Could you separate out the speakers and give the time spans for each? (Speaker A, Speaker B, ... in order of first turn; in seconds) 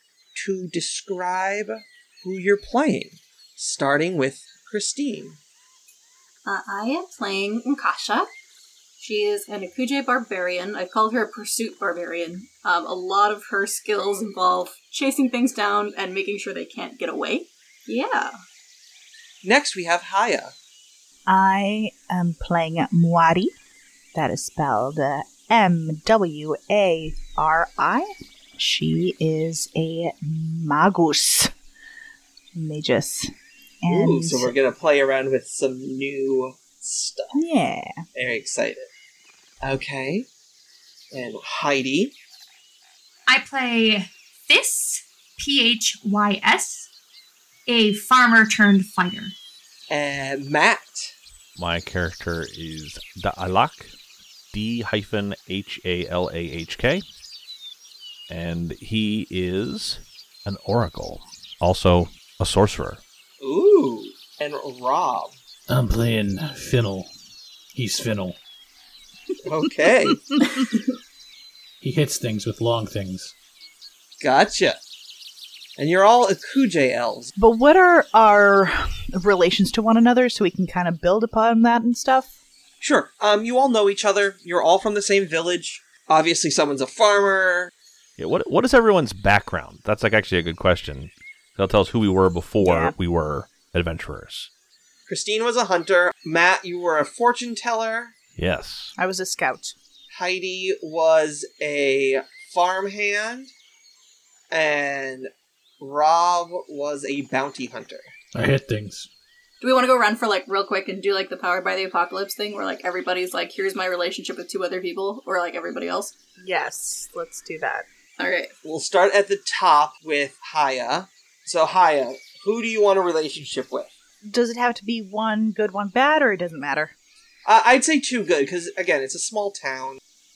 Speaker A: 0.3-5.4, 19.4-20.5, 33.9-37.4, 38.1-38.9, 39.6-40.3, 41.1-42.1, 49.9-51.1, 63.4-65.4, 69.4-70.2, 74.2-74.8, 75.8-77.3, 82.8-87.7, 95.1-98.2, 100.1-103.5, 104.5-108.1, 118.6-123.9, 127.5-130.0
Speaker B: 6.5-8.3, 9.0-18.3, 109.6-116.2, 118.2-118.5
Speaker C: 21.3-23.6, 24.1-31.5, 32.5-33.3, 33.8-34.5, 37.3-38.0, 77.4-82.3, 92.6-92.9, 99.0-99.8, 116.4-117.9, 124.3-126.9
Speaker D: 43.3-46.9, 47.7-49.3
Speaker E: 51.6-53.9, 54.5-57.0, 58.3-63.0, 88.2-94.5, 98.4-99.0
Speaker F: 65.7-67.1, 67.8-68.4, 71.8-73.3, 108.3-109.1